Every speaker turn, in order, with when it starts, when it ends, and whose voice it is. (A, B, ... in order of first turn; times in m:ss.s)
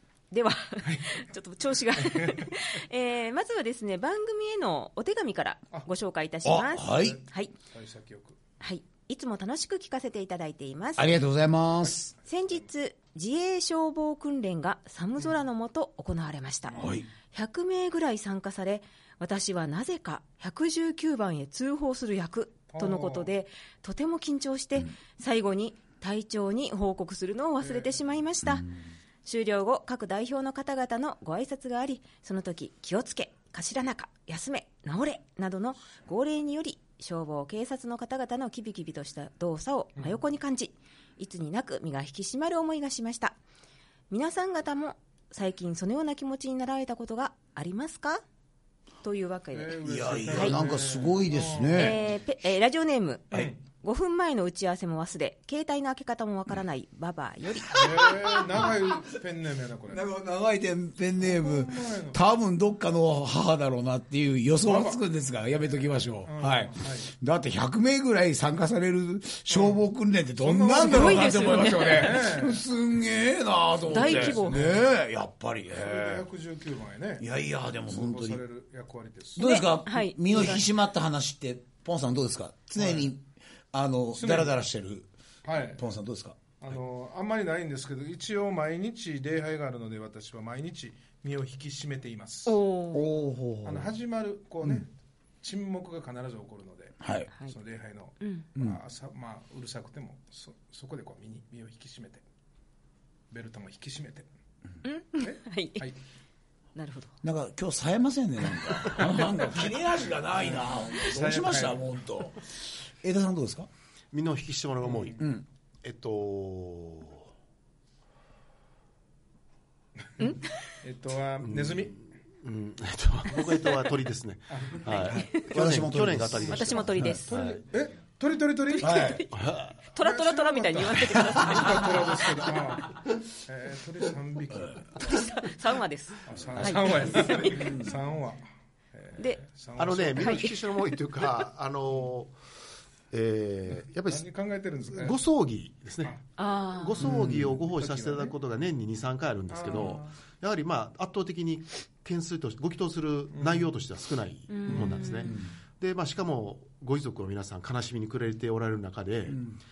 0:00.3-0:07.5 A
0:02.0-0:02.4 B
0:06.4-0:07.2 C
0:06.9-0:08.4 B
0:08.6-0:11.1 A
0:11.0-0:12.1 C
0:12.3-0:16.8 A
0:16.7-0:17.0 B
0:16.8-0:17.1 C
0:17.3-0:28.7 A
0:22.7-0:23.3 B
0:27.6-0:28.0 B
0:29.2-0:43.4 A
0:44.1-0:48.2 A
0:49.0-0:49.8 A
0:49.5-0:52.0 B
0:49.8-0:52.0 C
0:51.7-0:58.1 A
0:53.3-0:53.6 B
0:57.7-1:00.0 B
0:57.7-0:59.1 C
0:59.9-1:16.2 C
1:01.2-1:02.2 B
1:04.6-1:05.0 B
1:06.2-1:07.1 B
1:09.5-1:09.8 B
1:10.4-1:12.6 B
1:10.8-1:12.1 A
1:13.9-1:14.8 B
1:13.9-1:14.5 A
1:15.7-1:19.6 B
1:17.2-1:18.4 C
1:19.4-1:25.1 C
1:19.4-1:20.7 A
1:22.8-1:23.1 B
1:24.1-1:24.5 B
1:25.4-1:25.8 B
1:25.8-1:26.8 C
1:26.6-1:32.6 B
1:32.4-1:33.0 A
1:32.9-1:33.9 C
1:33.6-1:34.9 B
1:35.4-1:42.2 B
1:37.0-1:37.3 C
1:38.2-1:38.5 A
1:43.3-1:44.3 B
1:44.8-1:45.9 A
1:45.2-1:46.0 B
1:46.8-1:47.1 A
1:47.2-1:52.5 C
1:50.4-1:51.9 B
1:53.0-1:53.7 C
1:54.1-1:55.2 D
1:54.8-1:55.2 B
1:55.2-1:55.4 C
1:55.8-1:57.3 D
2:00.8-2:02.0 B
2:01.4-2:07.6 D
2:03.4-2:03.7 A
2:04.5-2:04.9 B
2:05.1-2:05.4 A
2:05.3-2:07.2 C
2:06.5-2:07.3 A
2:07.3-2:09.2 B
2:08.7-2:12.2 A
2:08.8-2:09.2 C
2:09.3-2:09.7 D
2:10.0-2:15.0 B
2:15.0-2:17.9 A
2:16.2-2:20.4 B
2:17.6-2:17.9 C
2:19.2-2:19.4 A
2:19.8-2:22.3 D
2:20.2-2:20.8 A
2:23.1-2:24.3 D
2:24.1-2:25.2 B
2:24.9-2:39.4 D
2:26.4-2:27.1 A
2:27.0-2:27.5 C
2:27.1-2:28.3 B
2:29.5-2:30.1 B
2:33.3-2:33.6 B
2:34.5-2:35.3 A
2:39.3-2:39.6 C